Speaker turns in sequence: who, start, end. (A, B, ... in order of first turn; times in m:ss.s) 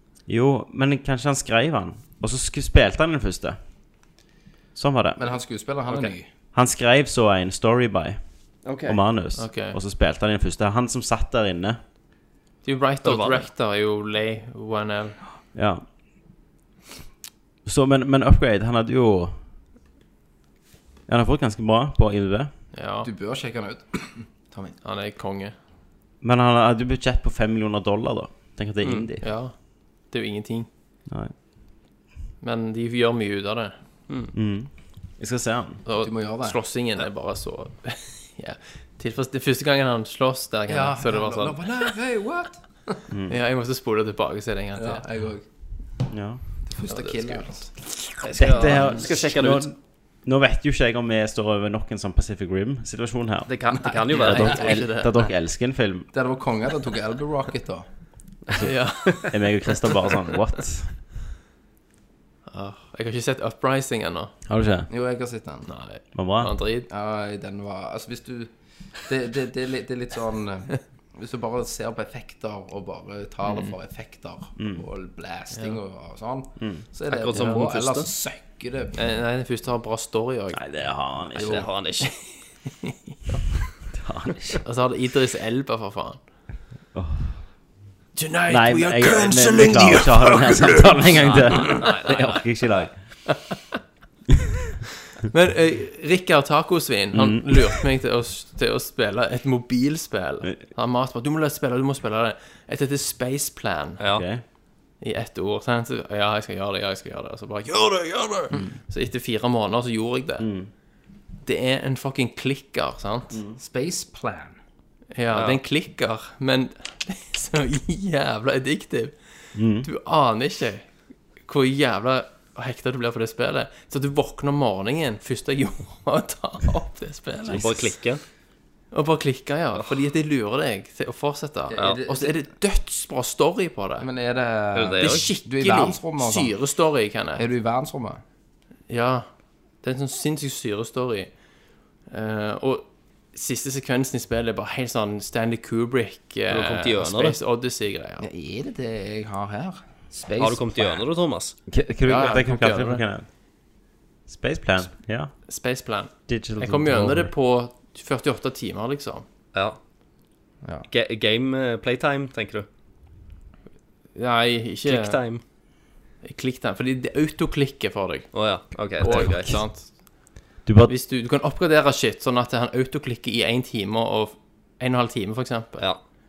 0:00.3-0:03.6 A
0:04.8-0:05.2 A
0:05.2-0:06.3 B
0:06.5-0:08.2 A
0:08.6-0:09.0 C
0:08.8-0:11.8 A
0:09.4-0:09.8 D
0:12.6-0:15.2 D
0:13.0-0:13.5 C
0:15.5-0:15.8 A
0:17.6-0:19.4 A
0:21.1-0:22.5 A
0:22.7-0:23.1 D
0:23.0-0:24.8 B
0:24.8-0:25.6 D
0:26.2-0:29.3 A
0:28.8-0:29.1 C
0:29.2-0:30.7 D
0:32.4-0:33.8 D
0:34.3-0:35.8 A
0:35.8-0:41.9 D
0:36.0-0:36.6 B
0:40.7-0:43.0 B
0:43.1-0:43.4 A
0:43.3-0:45.0 D
0:44.8-0:45.4 B
0:46.1-0:46.4 A
0:46.7-0:47.7 B
0:46.9-0:47.7 D
0:48.2-0:49.7 C
0:48.3-0:49.1 D
0:48.4-0:56.1 A
0:53.5-0:55.1 C
0:54.1-0:55.1 D
0:56.1-0:57.9 B
0:58.5-1:01.0 A
0:58.6-1:00.1 D
1:02.5-1:04.3 D
1:04.5-1:04.9 A
1:04.9-1:05.7 B
1:05.7-1:06.9 D
1:06.1-1:06.5 A
1:06.9-1:19.0 B
1:13.4-1:13.8 D
1:14.6-1:14.8 A
1:15.5-1:15.8 D
1:17.1-1:18.1 C
1:18.9-1:20.6 D
1:20.5-1:21.7 A
1:21.4-1:22.1 C
1:22.8-1:23.4 D
1:23.9-1:24.6 A
1:24.6-1:26.2 D
1:26.9-1:27.4 A
1:28.2-1:32.3 D
1:28.5-1:32.9 A
1:31.2-1:32.4 C
1:35.2-1:44.0 D
1:37.1-1:37.8 A
1:44.0-1:44.2 C
1:44.1-1:44.4 A
1:45.0-1:50.5 D
1:50.4-1:50.7 A
1:51.4-1:53.4 D
1:53.3-1:53.6 A
1:53.6-1:54.6 B
1:55.2-1:59.2 D
1:55.3-1:55.6 C
1:59.6-1:59.9 A
1:59.8-2:00.9 D
2:01.4-2:08.0 D
2:07.5-2:08.2 C
2:08.9-2:14.1 D
2:11.7-2:12.5 B
2:14.0-2:16.5 B
2:14.7-2:15.3 C
2:15.0-2:17.5 D
2:17.4-2:18.2 B
2:18.9-2:19.3 D
2:19.8-2:21.3 D
2:22.1-2:28.3 D
2:26.5-2:27.4 C
2:28.2-2:31.0 B
2:30.4-2:31.6 C
2:31.7-2:33.3 A
2:32.0-2:33.0 D
2:34.3-2:35.3 A
2:35.5-2:39.2 D
2:36.3-2:37.3 A
2:39.5-2:39.8 C
2:40.9-2:42.7 C
2:44.2-2:45.2 D
2:44.8-2:45.4 C
2:46.2-2:50.3 D
2:48.3-2:49.6 C
2:50.6-2:50.9 A
2:50.9-2:55.9 D